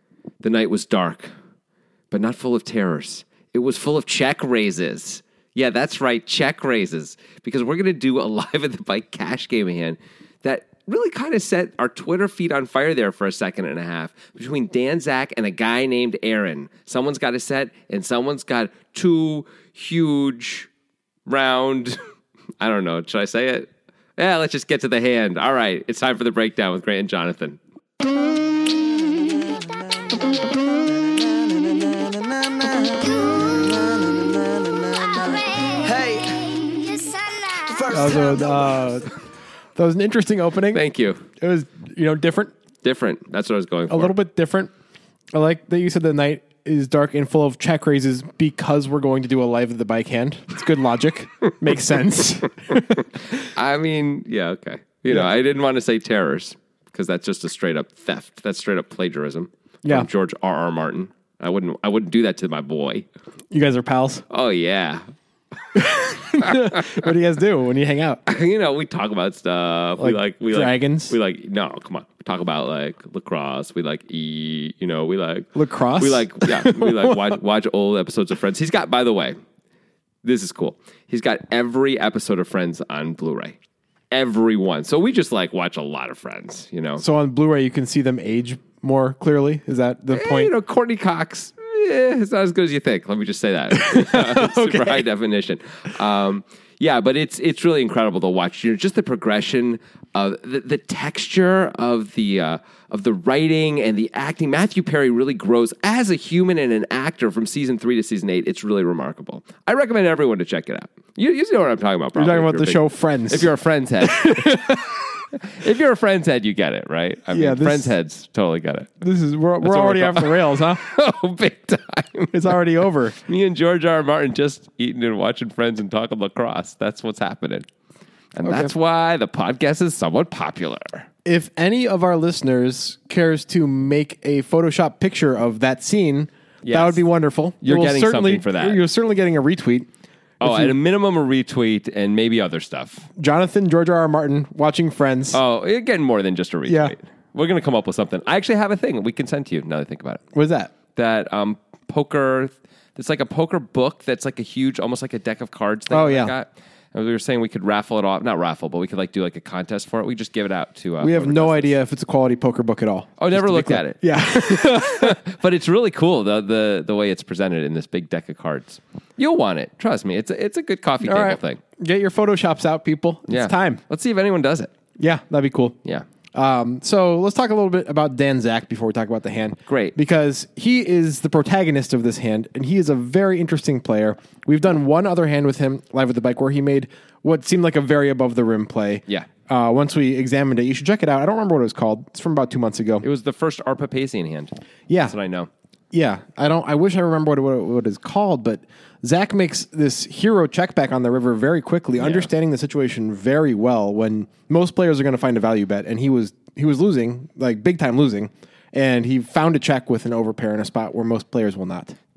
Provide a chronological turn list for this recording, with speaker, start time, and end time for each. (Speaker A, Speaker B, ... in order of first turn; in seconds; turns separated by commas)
Speaker A: 0.4-1.3, Speaker A: 2.1-20.7, Speaker A: 21.2-22.0, Speaker A: 22.6-27.6, Speaker B: 29.1-29.4, Speaker B: 31.2-39.1, Speaker C: 37.9-39.1, Speaker C: 39.8-42.5, Speaker A: 40.7-41.2, Speaker A: 42.8-44.1, Speaker C: 43.9-44.7, Speaker C: 45.3-53.0, Speaker A: 52.8-63.0, Speaker C: 63.5-64.2, Speaker A: 64.3-65.0, Speaker C: 65.7-68.2, Speaker A: 66.4-67.0, Speaker A: 68.2-79.3, Speaker C: 70.0-71.1, Speaker C: 75.5-77.2, Speaker A: 80.2-83.6, Speaker A: 84.1-87.0, Speaker C: 87.0-90.5, Speaker A: 90.1-118.9, Speaker C: 93.7-95.0, Speaker C: 112.1-114.9, Speaker C: 117.3-117.9, Speaker C: 119.0-120.8, Speaker A: 119.6-122.6, Speaker C: 122.3-123.2, Speaker A: 123.1-127.7, Speaker A: 128.3-131.1, Speaker C: 128.4-128.7, Speaker C: 131.2-139.9, Speaker A: 136.6-137.0, Speaker A: 137.6-138.8, Speaker C: 140.4-140.7, Speaker A: 140.4-143.1, Speaker C: 143.2-145.4, Speaker A: 145.3-150.2, Speaker C: 146.7-146.9, Speaker C: 150.3-150.7, Speaker A: 150.9-161.8, Speaker C: 155.9-156.3, Speaker C: 161.0-165.2, Speaker A: 163.2-171.6, Speaker C: 171.0-173.8, Speaker A: 173.3-174.7, Speaker C: 175.0-175.8, Speaker C: 176.3-193.0, Speaker A: 179.7-179.9, Speaker A: 193.0-194.5, Speaker C: 194.9-195.1, Speaker A: 195.1-195.5, Speaker C: 195.9-211.9, Speaker A: 202.0-202.3